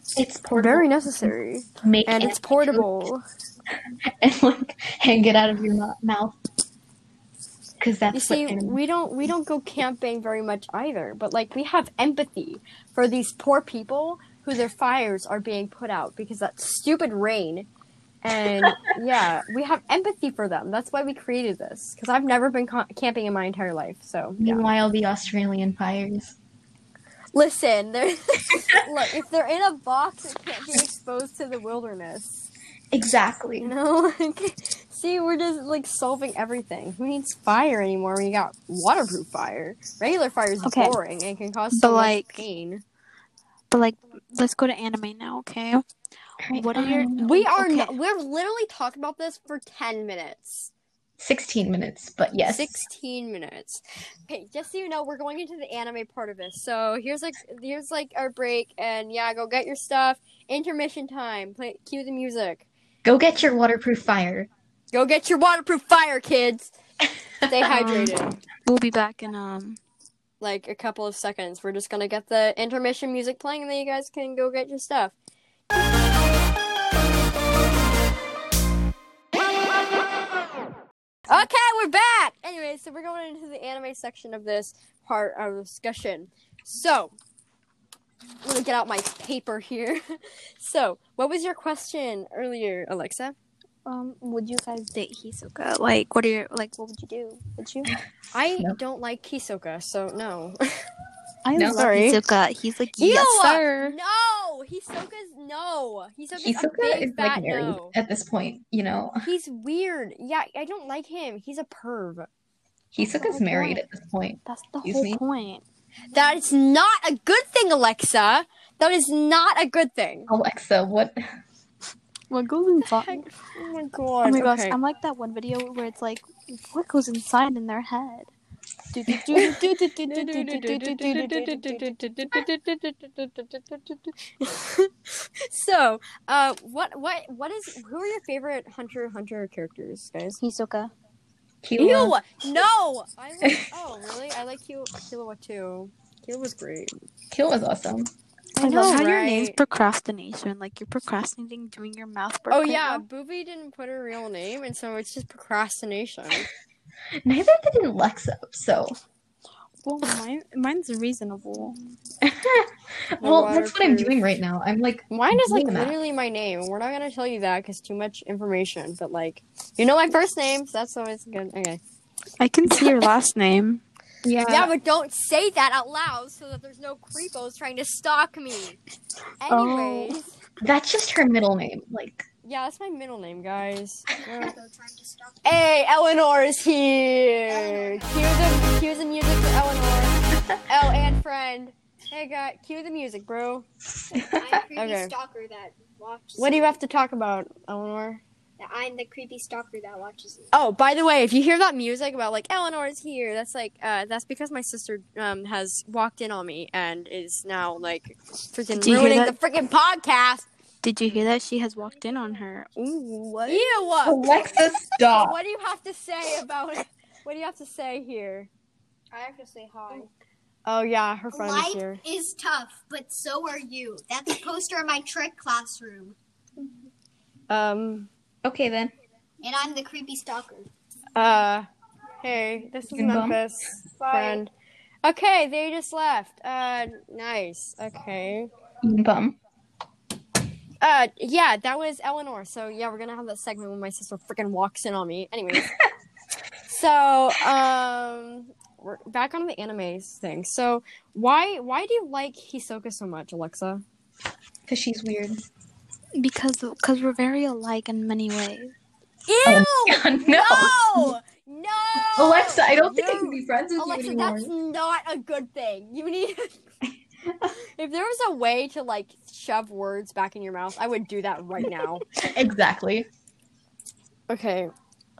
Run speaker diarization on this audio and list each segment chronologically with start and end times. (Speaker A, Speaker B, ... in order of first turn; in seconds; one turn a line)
Speaker A: 0.1-1.3
Speaker B: 0.5-3.2
Speaker A: 1.8-3.0
Speaker A: 4.1-6.4
Speaker A: 7.8-8.8
Speaker B: 8.1-17.7
Speaker B: 18.2-24.6
Speaker A: 24.4-26.4
Speaker B: 27.3-32.5
Speaker A: 32.9-33.7
Speaker B: 33.6-42.8
Speaker C: 40.6-41.0
Speaker C: 41.7-42.4
Speaker C: 43.7-45.8
Speaker A: 46.4-47.2
Speaker C: 46.5-47.9
Speaker B: 47.1-50.7
Speaker A: 51.2-52.8
Speaker B: 52.4-62.7
Speaker A: 63.0-64.5
Speaker B: 64.9-66.7
Speaker A: 67.4-68.1
Speaker B: 67.5-68.3
Speaker C: 67.7-68.1
Speaker C: 68.7-69.8
Speaker B: 70.4-75.1
Speaker B: 81.3-87.1
Speaker B: 88.4-93.3
Speaker C: 93.9-97.9
Speaker B: 98.3-100.8
Speaker C: 101.4-104.0
Speaker A: 101.5-101.9
Speaker B: 101.7-102.2
Speaker B: 103.0-107.9
Speaker A: 106.3-109.3
Speaker B: 109.2-112.3
Speaker A: 112.9-115.2
Speaker C: 113.0-113.8
Speaker C: 114.5-115.6
Speaker B: 116.1-120.3
Speaker A: 120.3-121.2
Speaker C: 122.3-123.3
Speaker B: 122.9-124.8
Speaker C: 124.2-128.3
Speaker C: 128.9-132.0
Speaker B: 129.3-140.4
Speaker C: 140.4-140.9
Speaker A: 141.6-142.2
Speaker B: 141.8-146.9
Speaker A: 147.3-148.1
Speaker B: 148.6-149.6
Speaker C: 148.6-153.0
Speaker B: 152.5-156.5
Speaker A: 157.2-159.0
Speaker C: 159.8-161.8
Speaker A: 162.2-166.0
Speaker B: 163.2-164.1
Speaker B: 165.1-171.8
Speaker C: 172.4-173.8
Speaker A: 174.2-174.7
Speaker B: 174.5-178.8
Speaker B: 179.4-180.4
Speaker C: 179.5-180.2
Speaker A: 180.6-182.2
Speaker B: 182.4-184.5
Speaker D: 184.3-185.6
Speaker B: 185.4-193.7
Speaker D: 187.5-188.3
Speaker A: 194.1-194.6
Speaker D: 194.2-196.7
Speaker B: 194.8-195.1
Speaker B: 196.4-198.2
Speaker D: 198.6-200.5
Speaker B: 200.5-210.5
Speaker C: 208.7-209.4
Speaker C: 210.8-213.7
Speaker B: 213.5-218.5
Speaker A: 214.0-215.4
Speaker D: 219.1-220.1
Speaker B: 220.7-222.0
Speaker D: 221.3-226.2
Speaker B: 227.5-228.1
Speaker A: 228.4-228.9
Speaker D: 229.4-230.7
Speaker B: 231.2-231.7
Speaker B: 232.2-234.5
Speaker A: 232.9-233.4
Speaker D: 234.0-234.4
Speaker B: 235.0-238.5
Speaker A: 238.8-239.4
Speaker B: 240.8-245.7
Speaker B: 246.7-253.8
Speaker A: 254.7-255.4
Speaker C: 256.2-258.7
Speaker B: 259.3-266.6
Speaker A: 259.4-261.1
Speaker A: 262.1-264.5
Speaker A: 266.9-267.5
Speaker B: 267.8-272.0
Speaker A: 272.1-273.1
Speaker B: 274.3-274.7